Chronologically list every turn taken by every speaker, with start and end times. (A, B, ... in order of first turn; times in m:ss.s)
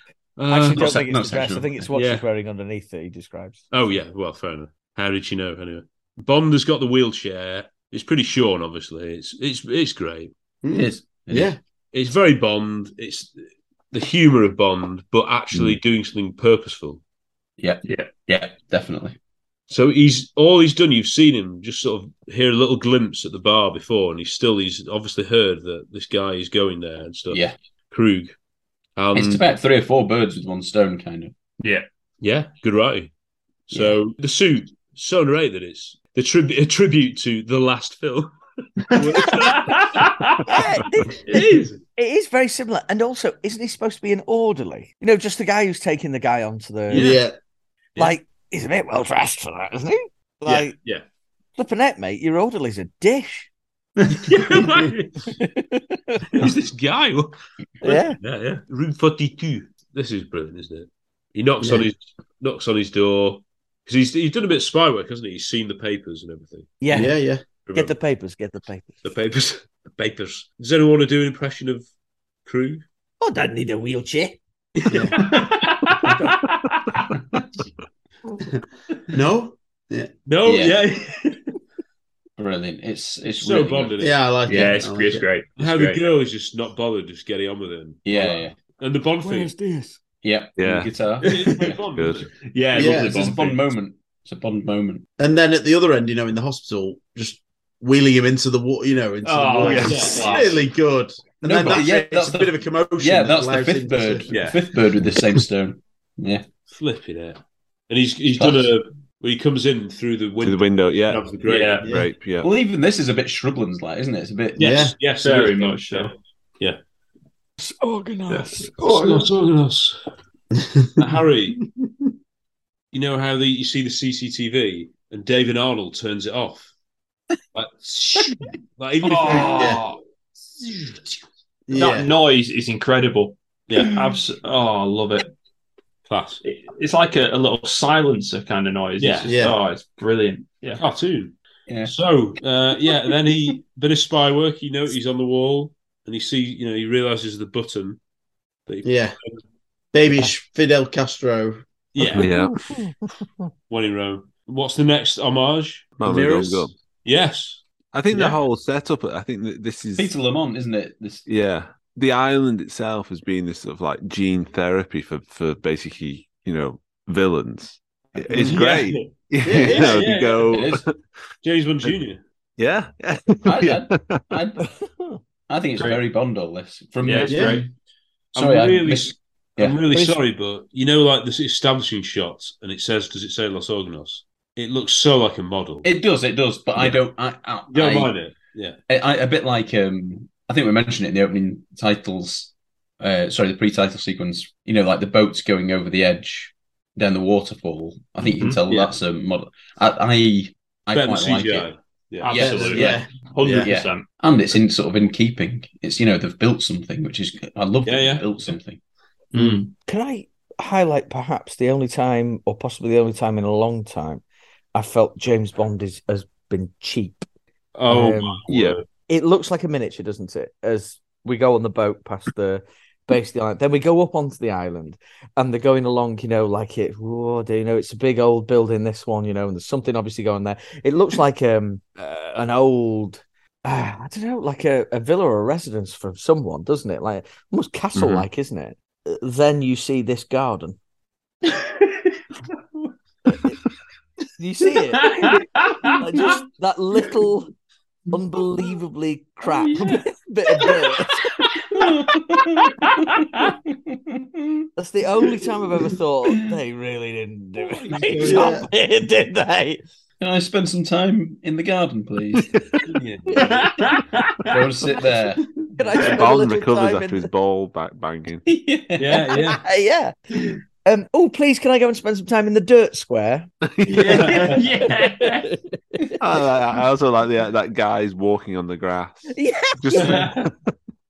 0:00.4-0:01.0 A
0:00.5-0:03.6 B
0:00.8-0:01.9 C
0:01.9-0:02.2 A
0:03.7-0:10.3 A
0:10.6-0:11.6 D
0:10.7-0:11.5 C
0:11.9-0:17.0 A
0:15.5-0:15.8 C
0:17.6-0:19.2 C
0:17.8-0:18.1 E
0:19.7-0:28.3 A
0:29.0-0:29.4 A
0:29.1-0:31.3 C
0:31.6-0:31.8 E
0:32.2-0:33.1 A
0:33.7-0:38.3 A
0:38.9-0:40.0 A
0:39.2-0:40.3 E
0:40.5-0:41.4 B
0:41.2-0:41.8 A
0:42.0-0:47.2 B
0:46.9-0:47.2 A
0:46.9-0:47.3 D
0:48.0-0:50.7 B
0:50.5-0:51.0 A
0:51.6-0:53.5 B
0:54.2-0:55.3 A
0:56.3-1:06.8 A
0:57.8-0:58.2 B
1:06.8-1:09.0 B
1:06.9-1:07.4 D
1:07.7-1:08.0 A
1:09.0-1:11.9 A
1:12.4-1:12.8 A
1:13.2-1:14.4 B
1:14.8-1:15.4 A
1:14.9-1:15.2 D
1:15.3-1:16.3 E
1:19.1-1:20.1 D
1:20.2-1:21.4 A
1:20.4-1:20.8 C
1:22.4-1:24.0 C
1:23.4-1:24.2 A
1:24.0-1:25.3 D
1:24.5-1:26.0 E
1:25.6-1:29.5 A
1:28.0-1:28.6 C
1:29.2-1:30.0 B
1:30.2-1:31.8 C
1:30.6-1:30.9 F
1:31.2-1:32.3 A
1:31.9-1:32.3 F
1:32.5-1:33.6 E
1:32.7-1:33.1 D
1:32.7-1:35.0 C
1:35.2-1:44.3 D
1:39.2-1:40.6 E
1:39.6-1:40.2 F
1:39.8-1:40.4 A
1:41.4-1:46.4 C
1:44.3-1:44.6 A
1:46.7-1:51.8 A
1:48.3-1:48.7 C
1:50.4-1:52.5 F
1:51.4-1:51.9 E
1:52.4-1:54.9 C
1:54.6-1:55.0 D
1:54.6-1:56.8 A
1:55.2-1:56.1 E
1:57.6-1:59.2 B
1:58.3-2:00.0 A
2:01.0-2:01.6 A
2:02.9-2:06.7 A
2:07.5-2:09.8 A
2:09.0-2:09.9 E
2:09.3-2:09.8 D
2:11.7-2:12.1 D
2:11.7-2:15.3 E
2:13.7-2:14.0 A
2:16.1-2:16.4 A
2:16.4-2:20.8 E
2:19.0-2:19.4 A
2:19.3-2:19.6 D
2:20.8-2:28.0 A
2:21.7-2:21.9 C
2:28.7-2:29.4 A
2:28.8-2:29.2 D
2:29.9-2:31.6 D
2:31.9-2:32.3 A
2:32.1-2:32.9 B
2:32.1-2:32.7 F
2:33.7-2:37.6 A
2:36.0-2:36.7 F
2:37.9-2:40.1 F
2:40.0-2:41.2 C
2:41.2-2:51.0 F
2:48.1-2:48.6 C
2:48.4-2:49.1 A
2:49.4-2:50.0 D
2:49.8-2:50.6 A
2:50.5-2:50.8 C
2:51.4-2:52.2 A
2:52.6-2:54.2 F
2:53.4-2:54.6 C
2:55.5-2:57.7 C
2:57.0-2:57.6 E
2:57.3-2:57.6 D
2:58.3-2:59.8 C
2:58.3-3:05.8 A
2:59.9-3:00.2 B
3:05.8-3:08.1 C
3:07.7-3:08.8 A
3:08.9-3:21.7 C
3:18.7-3:19.0 A
3:20.9-3:22.9 A
3:22.2-3:24.0 E
3:22.2-3:28.8 C
3:22.8-3:23.7 D
3:27.8-3:28.2 A
3:29.3-3:29.7 E
3:29.9-3:34.2 B
3:34.7-3:37.2 B
3:37.8-3:38.8 A
3:37.9-3:38.4 B
3:38.5-3:38.8 F
3:39.1-4:00.8 B
3:57.9-3:58.3 F
4:04.4-4:05.1 B
4:05.1-4:05.4 E
4:06.0-4:07.5 B
4:08.1-4:11.2 B
4:11.7-4:13.1 C
4:13.7-4:14.7 C
4:14.8-4:19.8 B
4:17.9-4:18.6 C
4:18.2-4:18.7 D
4:20.2-4:22.5 C
4:22.9-4:23.5 A
4:23.7-4:24.0 E
4:24.5-4:25.5 C
4:25.8-4:27.3 B
4:26.0-4:28.4 F
4:28.4-4:29.3 C
4:29.0-4:29.6 A
4:29.3-4:30.1 B
4:30.8-4:36.0 B
4:33.8-4:34.5 F
4:33.9-4:35.5 E
4:36.2-4:40.5 F
4:39.3-4:40.2 B